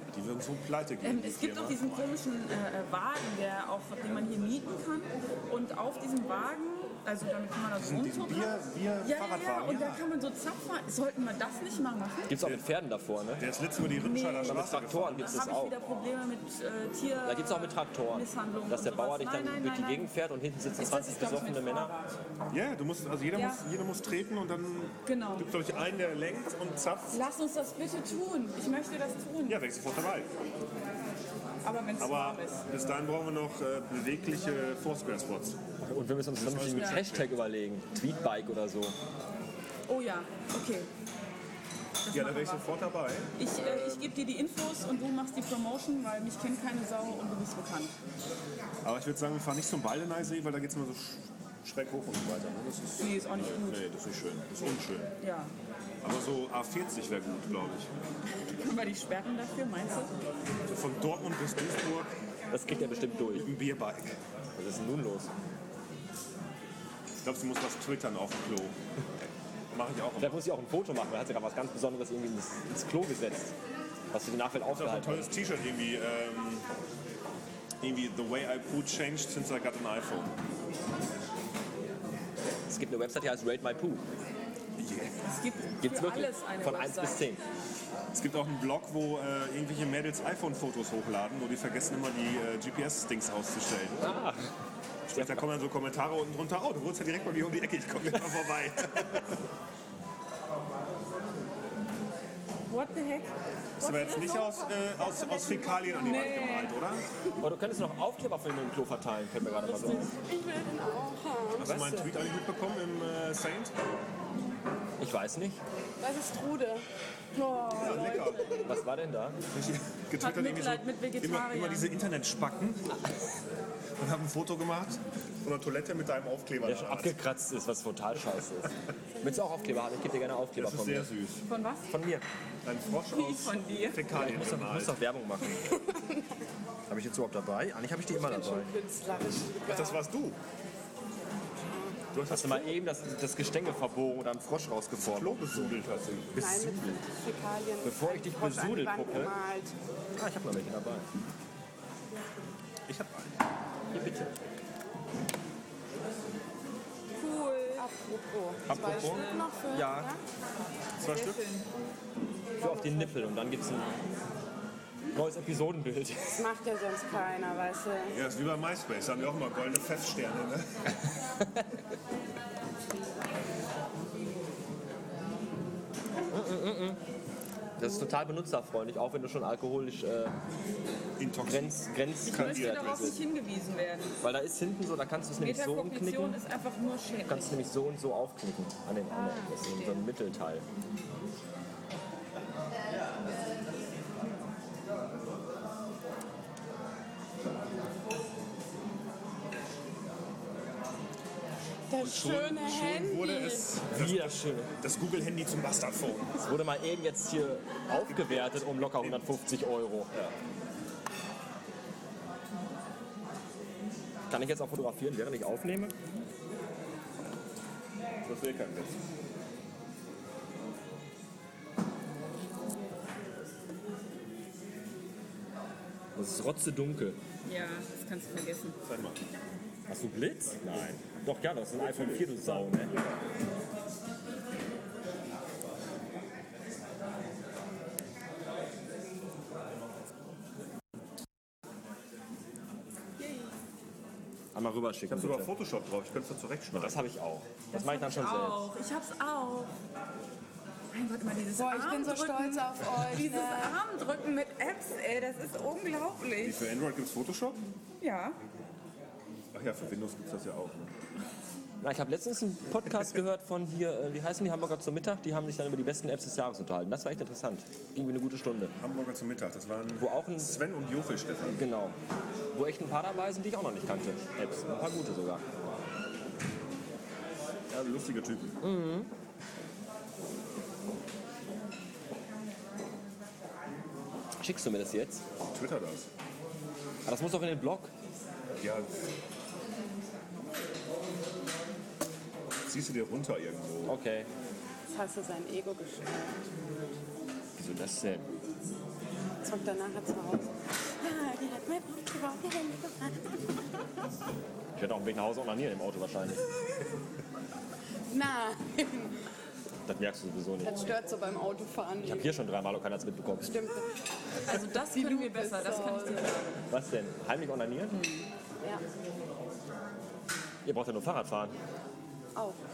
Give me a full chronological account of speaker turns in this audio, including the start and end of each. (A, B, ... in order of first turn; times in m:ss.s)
0:00.1-0:01.8 A
0:01.0-0:12.4 B
0:07.8-0:10.0 A
0:12.3-0:13.4 C
0:12.4-0:12.6 A
0:13.4-0:15.3 A
0:14.0-0:20.1 B
0:14.4-0:15.8 C
0:17.2-0:21.9 C
0:20.8-0:22.2 B
0:22.5-0:27.2 A
0:23.3-0:23.6 B
0:25.0-0:25.5 B
0:27.1-0:29.6 B
0:29.5-0:30.3 A
0:31.6-0:32.6 B
0:32.0-0:35.6 A
0:35.8-0:38.9 C
0:36.4-0:37.3 A
0:36.8-0:37.0 B
0:39.9-0:40.9 B
0:42.0-0:42.6 B
0:42.1-0:44.1 A
0:43.4-0:47.9 B
0:48.8-0:55.1 A
0:53.0-0:53.8 B
0:55.2-0:55.5 B
0:56.0-0:57.9 A
0:58.4-1:00.1 B
1:00.7-1:02.1 A
1:02.5-1:03.5 C
1:02.9-1:03.3 D
1:03.3-1:04.2 A
1:04.6-1:05.3 C
1:07.2-1:08.7 A
1:09.7-1:10.4 A
1:10.2-1:13.5 C
1:14.1-1:15.3 C
1:14.7-1:16.6 A
1:17.8-1:20.3 A
1:22.7-1:24.0 C
1:24.8-1:25.2 A
1:25.2-1:27.2 B
1:25.8-1:27.4 C
1:28.1-1:34.1 A
1:34.0-1:34.4 C
1:35.1-1:39.3 A
1:35.1-1:35.4 C
1:42.7-1:43.3 B
1:43.8-1:47.0 A
1:43.8-1:46.4 D
1:46.0-1:46.7 B
1:47.4-1:50.1 C
1:49.6-1:50.1 B
1:49.9-1:51.7 D
1:51.6-1:53.7 A
1:51.6-1:52.1 C
1:55.0-1:55.6 C
1:56.0-1:56.8 D
1:57.4-1:58.4 B
1:57.4-1:58.6 D
1:57.7-1:58.6 A
1:58.6-1:59.4 C
1:59.5-2:03.0 A
2:00.2-2:01.9 B
2:04.0-2:07.2 A
2:06.6-2:11.1 C
2:09.2-2:09.9 D
2:10.6-2:11.4 A
2:11.4-2:11.9 B
2:11.9-2:12.2 C
2:12.6-2:15.0 A
2:13.1-2:14.0 B
2:14.1-2:15.8 C
2:15.5-2:16.3 D
2:16.9-2:18.7 C
2:18.1-2:20.0 D
2:19.6-2:20.4 A
2:21.7-2:22.0 D
2:22.1-2:22.7 A
2:22.3-2:25.7 C
2:25.0-2:26.4 A
2:26.3-2:27.0 C
2:26.4-2:29.7 D
2:27.8-2:29.3 C
2:30.2-2:31.1 C
2:32.9-2:33.3 A
2:33.9-2:34.3 C
2:37.2-2:37.9 B
2:37.8-2:40.2 D
2:38.7-2:40.1 C
2:38.8-2:39.5 B
2:41.0-2:41.4 A
2:41.0-2:41.7 B
2:42.6-2:43.2 D
2:42.6-2:43.9 C
2:45.1-2:46.5 C
2:46.4-2:48.1 D
2:48.1-2:50.7 A
2:56.3-2:57.0 C
2:57.8-3:00.3 C
3:01.2-3:03.2 A
3:01.4-3:03.2 C
3:02.2-3:04.2 B
3:04.2-3:06.4 C
3:05.4-3:07.6 B
3:07.3-3:10.6 C
3:09.1-3:10.0 D
3:21.9-3:23.7 D
3:22.0-3:26.4 A
3:23.9-3:24.7 C
3:26.4-3:30.1 C
3:28.0-3:29.2 A
3:34.3-3:35.9 C
3:38.2-3:39.0 A
3:46.2-3:47.2 C
3:47.4-3:48.8 B
3:48.8-3:49.2 A
3:49.9-3:53.0 C
3:51.7-3:52.8 A
4:03.2-4:03.5 B
4:04.5-4:05.5 C
4:05.1-4:07.0 A
4:06.7-4:08.7 C
4:07.7-4:09.7 B
4:10.9-4:16.6 B
4:11.5-4:13.8 D
4:16.4-4:17.6 A
4:18.0-4:18.4 B
4:19.5-4:20.9 A
4:21.8-4:28.7 C
4:28.8-4:31.6 A
4:30.0-4:30.5 C
4:31.5-4:32.0 C
4:32.5-4:35.4 C
4:37.7-4:38.6 A
4:38.6-4:39.1 C
4:44.4-4:45.2 C
4:45.5-4:46.1 A
4:47.0-4:47.9 C
4:48.6-4:49.0 A
4:52.7-4:53.9 A
4:53.8-4:54.3 C
4:54.9-4:56.5 D
4:57.6-4:58.2 C
4:59.4-5:03.4 D
5:04.8-5:06.4 C
5:08.1-5:09.2 D
5:09.8-5:10.8 C
5:10.6-5:12.3 D
5:12.0-5:13.5 C
5:13.4-5:13.9 D
5:14.4-5:16.6 B
5:14.5-5:16.3 D
5:16.7-5:18.0 C
5:17.9-5:18.3 B
5:20.6-5:21.6 C